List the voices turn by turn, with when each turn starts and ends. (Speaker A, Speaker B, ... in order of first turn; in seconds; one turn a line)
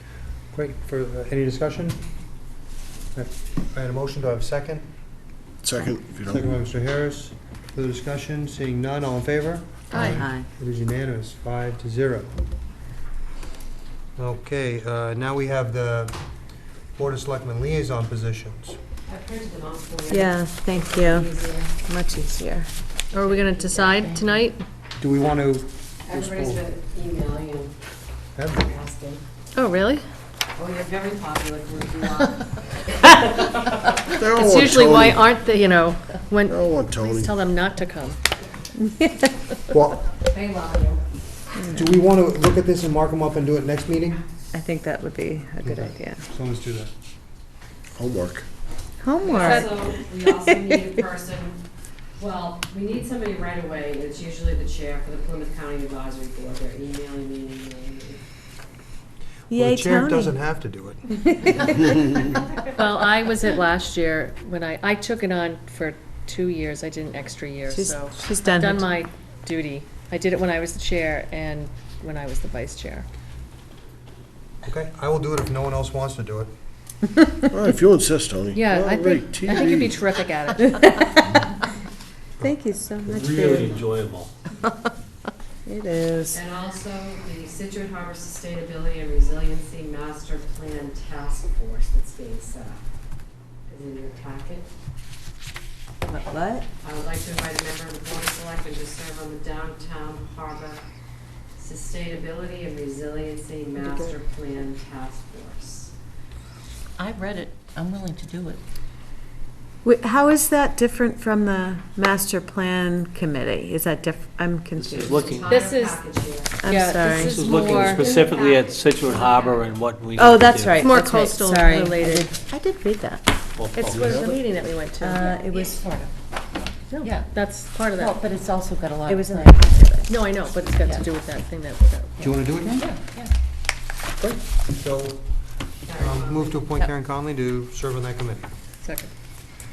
Speaker A: 0.5-2.0
Speaker A: 3.1-4.8
Speaker B: 5.6-6.5
Speaker A: 6.3-12.3
Speaker C: 9.9-10.2
Speaker D: 9.9-10.5
Speaker A: 14.2-16.1
Speaker A: 16.9-18.8
Speaker E: 19.1-20.2
Speaker D: 20.1-22.7
Speaker E: 20.8-21.7
Speaker C: 23.1-24.6
Speaker E: 23.8-24.0
Speaker F: 24.1-24.4
Speaker A: 25.0-26.7
Speaker E: 26.1-27.7
Speaker A: 28.4-28.8
Speaker E: 28.7-29.2
Speaker C: 29.5-30.0
Speaker E: 30.6-34.0
Speaker B: 34.1-35.2
Speaker C: 34.3-38.2
Speaker B: 36.5-37.3
Speaker D: 38.8-39.2
Speaker A: 39.7-40.1
Speaker E: 40.2-41.0
Speaker D: 41.5-42.0
Speaker A: 41.7-44.2
Speaker D: 44.5-46.2
Speaker A: 45.6-46.9
Speaker B: 48.0-48.4
Speaker D: 49.0-49.7
Speaker E: 49.2-51.6
Speaker C: 49.4-49.7
Speaker E: 52.2-58.2
Speaker A: 59.5-61.1
Speaker D: 59.5-60.4
Speaker D: 61.4-61.7
Speaker C: 62.8-73.1
Speaker D: 67.7-68.9
Speaker A: 74.6-76.5
Speaker B: 77.5-80.0
Speaker C: 78.5-81.2
Speaker D: 82.4-83.8
Speaker G: 83.0-84.3
Speaker D: 85.7-86.4
Speaker E: 86.3-92.8
Speaker E: 93.7-94.7
Speaker D: 96.1-96.6
Speaker E: 96.8-100.8
Speaker E: 101.5-105.9
Speaker D: 103.8-104.1
Speaker F: 107.0-108.6
Speaker D: 109.8-115.0
Speaker G: 114.8-115.6
Speaker E: 114.9-116.5
Speaker C: 115.5-116.0
Speaker D: 116.6-117.4
Speaker C: 116.6-118.1
Speaker G: 117.1-120.8
Speaker E: 117.4-119.6
Speaker D: 120.2-123.2
Speaker C: 120.8-122.3
Speaker G: 123.5-124.3
Speaker C: 123.7-125.3
Speaker B: 123.9-124.4
Speaker D: 125.0-125.8
Speaker F: 125.1-126.1
Speaker C: 126.9-128.2
Speaker F: 127.0-127.3
Speaker F: 127.9-129.7
Speaker D: 129.1-130.2
Speaker C: 130.1-132.1
Speaker A: 132.2-132.9
Speaker F: 132.8-133.3
Speaker A: 134.2-135.3
Speaker E: 135.9-136.5
Speaker A: 135.9-138.5
Speaker C: 138.8-139.1